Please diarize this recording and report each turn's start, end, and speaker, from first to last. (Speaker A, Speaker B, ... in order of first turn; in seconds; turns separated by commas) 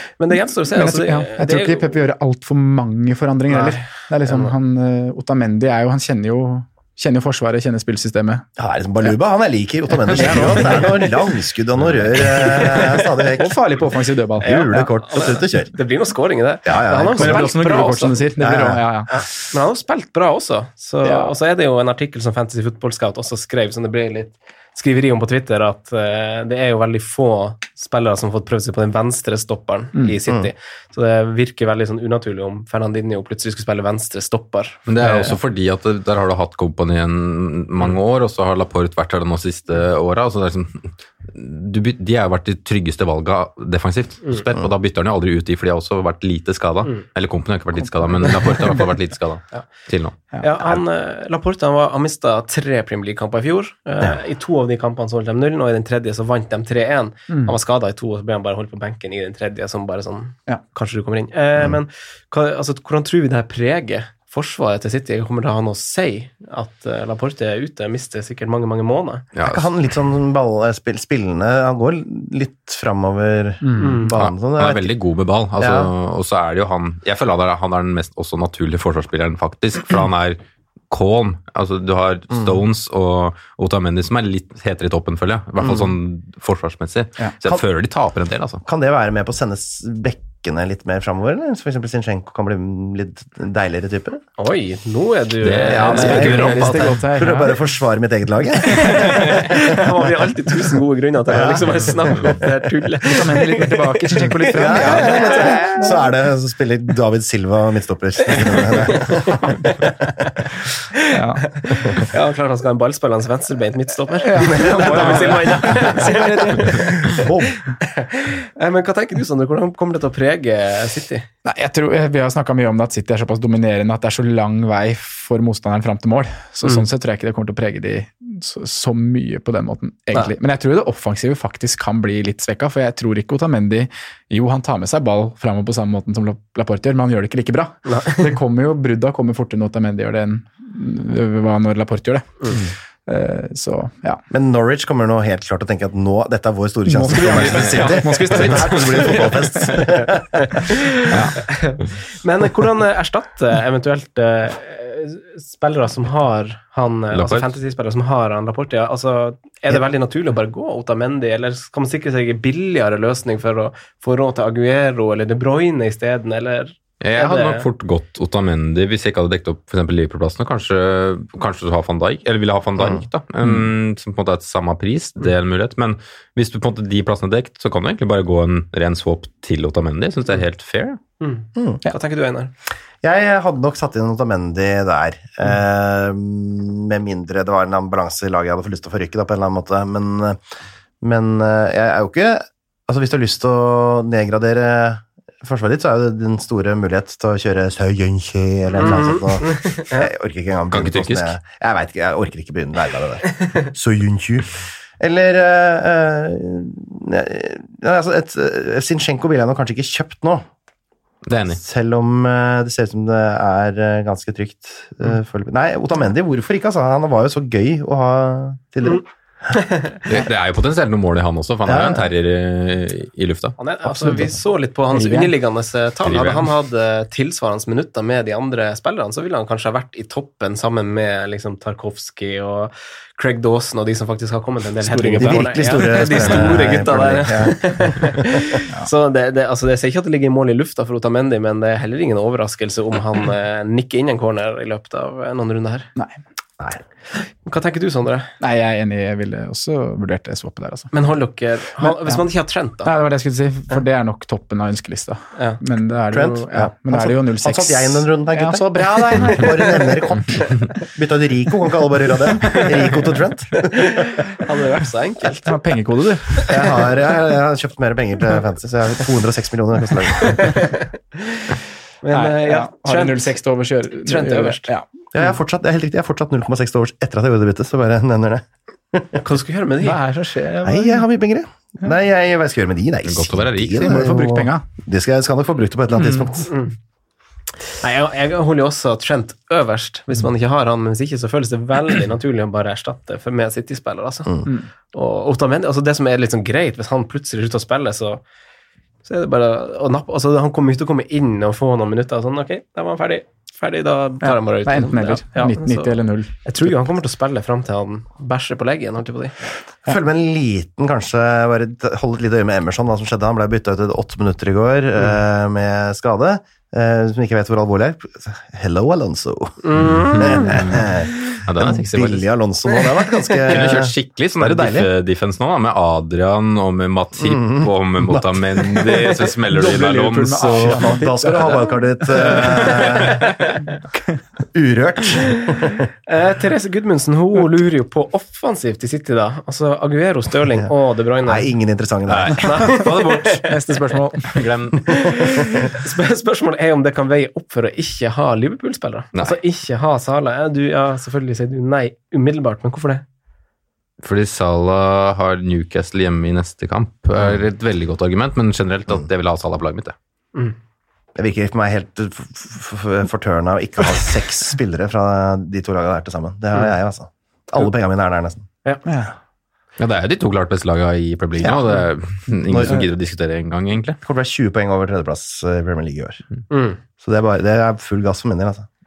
Speaker A: 0.2-2.0, Speaker B: 0.7-8.4, Speaker A: 3.5-4.5, Speaker C: 8.6-13.6, Speaker B: 10.1-11.0, Speaker A: 10.3-10.5, Speaker B: 12.6-14.9, Speaker C: 14.4-15.7, Speaker A: 14.5-18.2, Speaker C: 16.6-17.6, Speaker B: 17.1-19.2, Speaker C: 18.4-18.8, Speaker A: 19.5-35.3, Speaker B: 21.0-21.3, Speaker D: 34.9-50.1, Speaker A: 50.4-69.2, Speaker D: 69.3-69.7, Speaker C: 69.4-75.0, Speaker A: 73.8-74.1, Speaker D: 74.1-80.4, Speaker C: 75.6-75.9, Speaker D: 80.9-88.6, Speaker C: 85.6-85.9, Speaker C: 88.6-94.2, Speaker A: 94.4-96.9, Speaker D: 95.4-97.0, Speaker C: 95.6-99.5, Speaker B: 95.9-97.6, Speaker A: 98.7-105.9, Speaker C: 101.3-102.3, Speaker B: 103.1-106.0, Speaker C: 104.5-110.3, Speaker A: 108.8-109.3, Speaker A: 110.9-117.2, Speaker B: 111.1-111.4, Speaker B: 114.2-117.2, Speaker C: 114.4-115.9, Speaker C: 116.7-117.6, Speaker A: 117.8-121.3, Speaker B: 121.4-144.2, Speaker A: 137.8-138.2, Speaker C: 144.3-150.6, Speaker B: 146.9-149.9, Speaker D: 147.3-149.3, Speaker A: 150.5-167.7, Speaker B: 151.1-151.4, Speaker D: 157.1-157.5, Speaker D: 167.0-181.0, Speaker A: 181.2-182.5, Speaker C: 181.6-181.8, Speaker C: 183.0-190.4, Speaker C: 191.0-210.4, Speaker A: 198.8-200.1, Speaker D: 200.7-201.3, Speaker D: 211.2-211.6, Speaker C: 211.5-219.0, Speaker A: 219.6-219.9, Speaker D: 220.1-223.6, Speaker C: 221.7-222.1, Speaker A: 223.6-245.9, Speaker B: 223.8-225.3, Speaker D: 226.0-226.5, Speaker B: 234.8-236.6, Speaker C: 235.2-238.6, Speaker A: 247.4-248.3, Speaker B: 248.4-250.9, Speaker A: 250.9-252.9, Speaker B: 251.8-252.2, Speaker B: 252.8-260.0, Speaker C: 256.1-264.1, Speaker A: 263.8-265.6, Speaker B: 265.4-266.7, Speaker C: 266.4-270.6, Speaker A: 270.2-273.4, Speaker B: 272.1-274.9, Speaker A: 274.0-274.7, Speaker C: 275.1-279.2, Speaker A: 279.2-280.0, Speaker B: 279.8-281.0, Speaker C: 280.6-286.5, Speaker D: 283.0-284.0, Speaker B: 283.9-284.6, Speaker B: 286.0-286.3, Speaker A: 286.5-286.7, Speaker A: 287.8-294.4, Speaker A: 294.9-298.2, Speaker A: 299.0-309.3, Speaker B: 304.2-306.7, Speaker C: 309.9-324.9, Speaker A: 319.6-320.6, Speaker D: 320.1-320.9, Speaker D: 321.4-322.2, Speaker D: 323.4-330.9, Speaker C: 327.2-329.2, Speaker B: 329.5-333.0, Speaker C: 330.4-333.4, Speaker C: 334.5-335.9, Speaker A: 336.1-341.5, Speaker C: 341.2-342.5, Speaker D: 342.1-343.5, Speaker A: 342.3-343.7, Speaker B: 343.4-344.5, Speaker D: 344.2-345.1, Speaker A: 344.9-353.0, Speaker D: 354.0-359.9, Speaker C: 361.1-368.5, Speaker B: 368.9-369.1, Speaker D: 369.8-374.0, Speaker C: 371.4-371.8, Speaker C: 372.5-372.9, Speaker C: 374.0-376.2, Speaker A: 376.5-376.8, Speaker C: 377.0-378.7